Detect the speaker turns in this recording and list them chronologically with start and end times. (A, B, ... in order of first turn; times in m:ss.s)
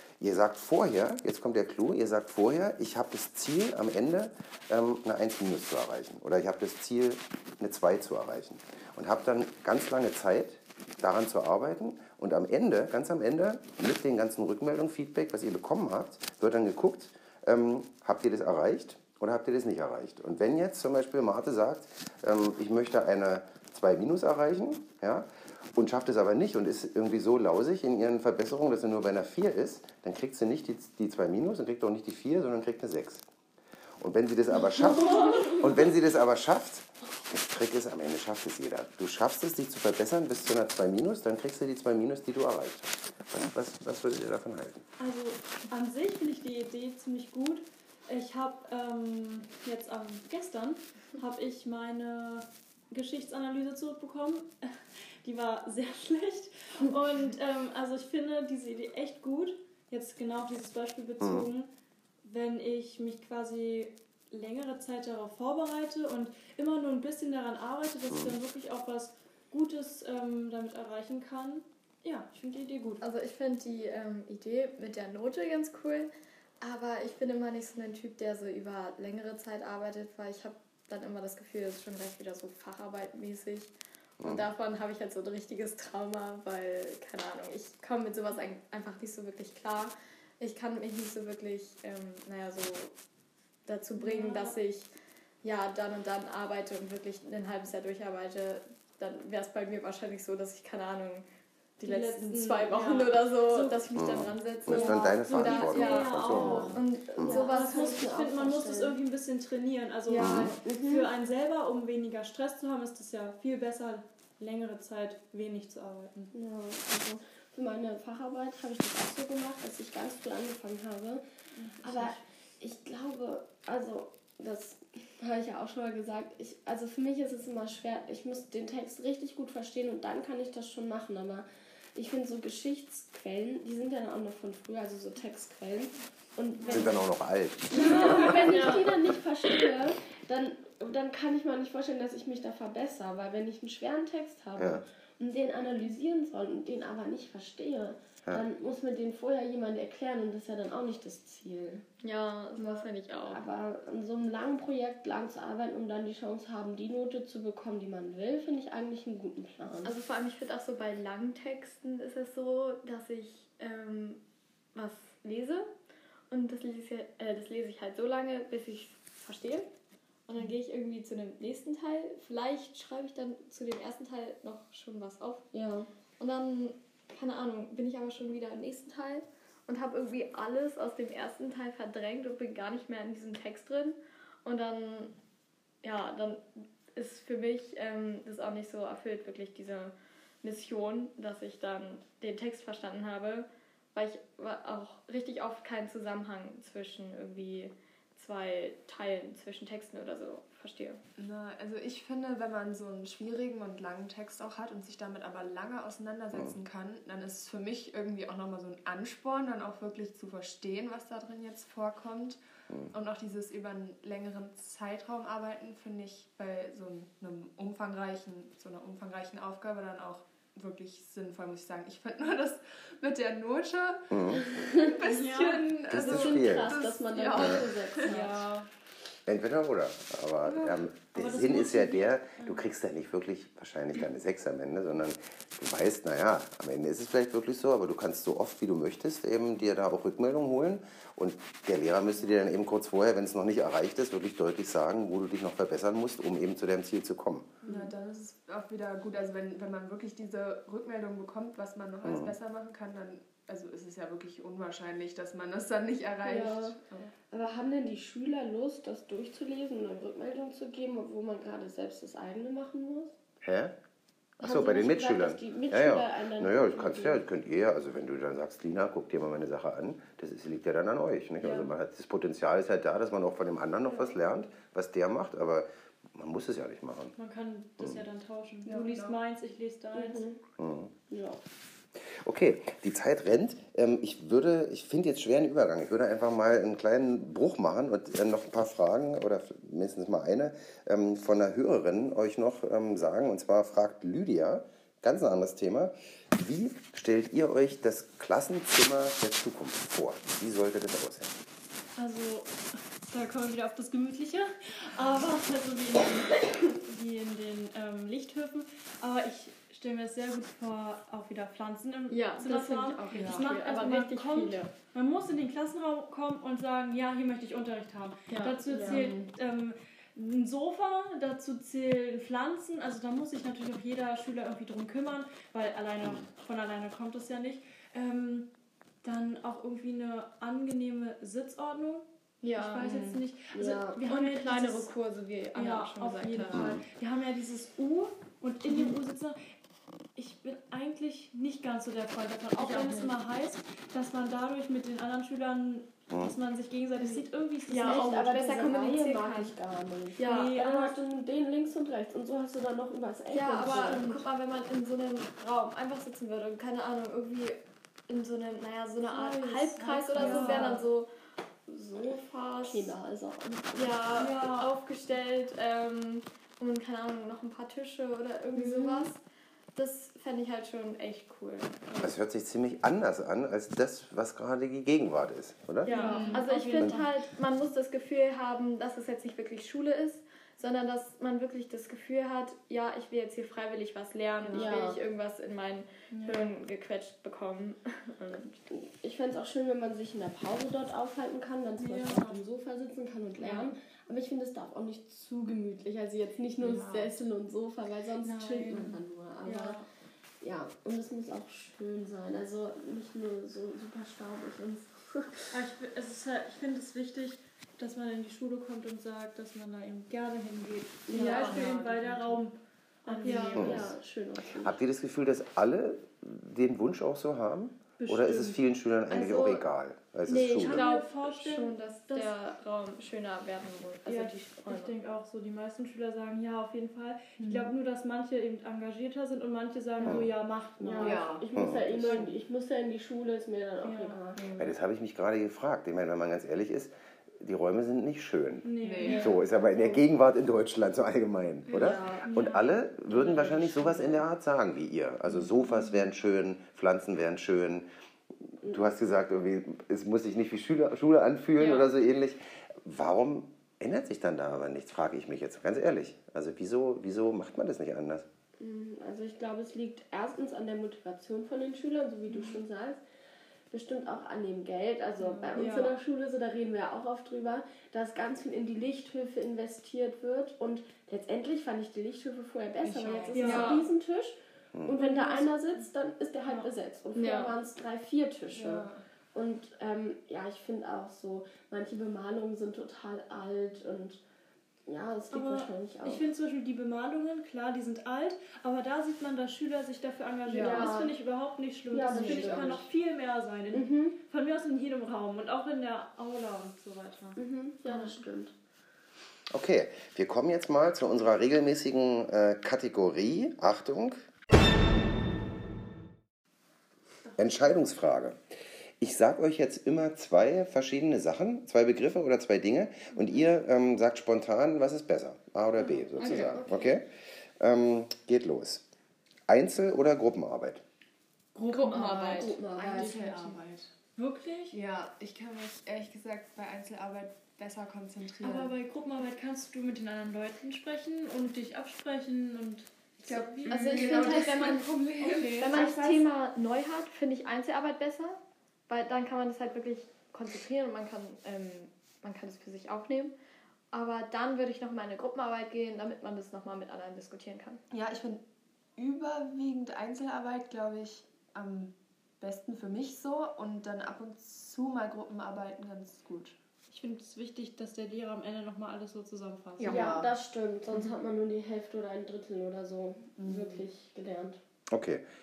0:00.2-0:33.3 A
0:34.0-0:44.8 A
0:34.8-0:35.6 B
0:45.0-1:01.7 C
1:01.2-1:01.5 A
1:02.2-1:13.0 C
1:08.1-1:08.4 A
1:13.0-1:16.1 D
1:16.6-1:32.9 D
1:24.2-1:24.5 A
1:33.7-1:34.9 D
1:34.0-1:34.6 C
1:35.4-1:41.3 D
1:41.8-1:48.0 D
1:41.8-1:43.8 C
1:44.0-1:47.3 A
1:44.7-1:56.3 C
1:46.3-1:46.7 B
1:47.3-1:49.0 B
1:50.1-1:50.6 D
1:50.2-1:50.5 A
1:50.6-1:51.1 B
1:56.3-2:01.2 B
2:01.6-2:02.2 C
2:01.8-2:17.0 B
2:16.7-2:18.9 A
2:17.7-2:31.8 B
2:18.2-2:18.9 D
2:24.6-2:24.8 A
2:32.0-2:33.4 D
2:32.6-2:39.9 B
2:39.8-2:44.2 D
2:44.8-2:45.7 D
2:46.3-2:49.7 D
2:50.3-2:55.4 D
2:55.5-2:55.9 B
2:56.2-3:05.1 D
3:05.8-3:21.0 D
3:21.2-3:32.4 E
3:32.9-3:44.0 E
3:44.1-3:44.5 A
3:44.5-3:45.0 B
3:44.7-3:48.4 E
3:45.0-3:45.8 C
3:45.9-3:46.8 A
3:46.0-3:48.2 B
3:47.4-3:47.6 A
3:48.0-3:48.7 C
3:49.3-4:07.6 A
3:50.4-3:52.6 C
4:07.6-4:17.1 E
4:07.7-4:07.9 B
4:12.0-4:12.4 A
4:16.2-4:16.8 B
4:17.3-4:23.2 B
4:23.4-4:23.7 A
4:24.4-4:37.2 A
4:24.4-4:27.2 B
4:31.4-4:31.7 C
4:37.2-4:40.2 C
4:37.8-4:38.0 A
4:38.7-4:39.2 E
4:39.9-4:40.4 B
4:40.6-4:40.9 A
4:41.1-4:41.4 B
4:42.0-5:01.4 A
5:02.0-5:28.5 C
5:12.1-5:14.7 D
5:13.1-5:13.5 E
5:18.3-5:19.0 D
5:18.7-5:19.1 B
5:18.7-5:19.1 E
5:29.0-5:34.9 C
5:32.4-5:32.9 D
5:32.9-5:33.2 E
5:33.5-5:34.0 B
5:34.1-5:36.7 D
5:35.6-5:39.4 C
5:36.5-5:36.8 A
5:40.2-5:48.1 C
5:42.6-5:43.1 D
5:46.1-5:46.4 A
5:47.2-5:49.5 D
5:47.7-5:54.2 B
5:50.2-5:50.6 D
5:50.2-5:51.0 C
5:53.3-6:01.1 D
5:53.7-5:54.2 C
5:59.1-6:00.8 C
6:00.2-6:00.7 B
6:00.2-6:00.8 E
6:01.7-6:04.3 B
6:02.1-6:02.9 D
6:03.8-6:09.2 D
6:04.2-6:04.7 C
6:08.6-6:09.1 B
6:09.8-6:11.9 D
6:12.0-6:16.1 A
6:15.8-6:28.6 D
6:15.9-6:17.1 C
6:16.0-6:16.4 E
6:24.5-6:25.0 B
6:26.1-6:26.5 C
6:28.7-6:39.8 B
6:31.8-6:32.4 C
6:33.4-6:33.7 C
6:36.6-6:37.1 E
6:38.2-6:39.9 C
6:40.4-6:45.5 B
6:45.5-6:53.9 C
6:51.1-6:51.7 B
6:51.2-6:51.9 D
6:51.2-6:52.4 E
6:53.1-6:54.8 B
6:53.2-6:53.7 D
6:53.6-6:54.0 A
6:54.6-7:00.9 A
6:58.0-6:58.6 C
6:59.1-6:59.6 D
7:00.3-7:04.9 D
7:00.5-7:02.3 C
7:04.1-7:11.4 C
7:07.4-7:07.7 E
7:10.0-7:10.3 A
7:10.8-7:14.4 B
7:11.0-7:11.5 E
7:11.6-7:12.0 A
7:12.0-7:12.3 C
7:13.8-7:14.2 C
7:14.4-7:14.7 E
7:14.6-7:27.9 A
7:18.6-7:19.4 C
7:18.8-7:19.3 E
7:19.1-7:20.0 B
7:21.7-7:22.2 E
7:22.2-7:22.8 C
7:23.1-7:24.2 E
7:28.6-7:38.3 A
7:28.6-7:28.9 B
7:38.6-7:43.0 B
7:43.7-8:04.2 B
7:45.5-7:46.0 C
7:52.8-7:53.8 E
7:53.3-7:53.9 C
7:53.4-7:53.8 D
7:55.0-7:55.8 C
7:57.2-7:57.6 D
7:58.5-7:59.0 E
8:04.9-8:06.3 B
8:05.3-8:17.4 C
8:10.5-8:11.0 E
8:10.6-8:11.2 B
8:11.9-8:12.8 B
8:12.0-8:12.9 E
8:13.7-8:14.2 B
8:17.4-8:18.5 B
8:19.5-8:24.2 A
8:27.4-8:28.5 A
8:29.0-8:37.1 A
8:35.8-8:37.0 E
8:36.2-8:36.6 D
8:37.6-8:38.9 A
8:39.5-8:40.8 A
8:41.6-8:43.9 E
8:41.7-8:42.6 D
8:42.3-8:43.6 B
8:44.2-8:44.8 C
8:44.7-8:48.8 E
8:48.4-8:54.4 C
8:53.2-8:56.1 E
8:53.7-8:54.9 D
8:55.2-8:55.8 C
8:55.6-9:03.4 D
9:03.9-9:07.8 D
9:07.9-9:08.4 E
9:09.0-9:16.6 E
9:16.9-9:20.0 C
9:19.8-9:20.3 E
9:19.8-9:24.6 B
9:23.4-9:23.8 E
9:24.9-9:25.2 A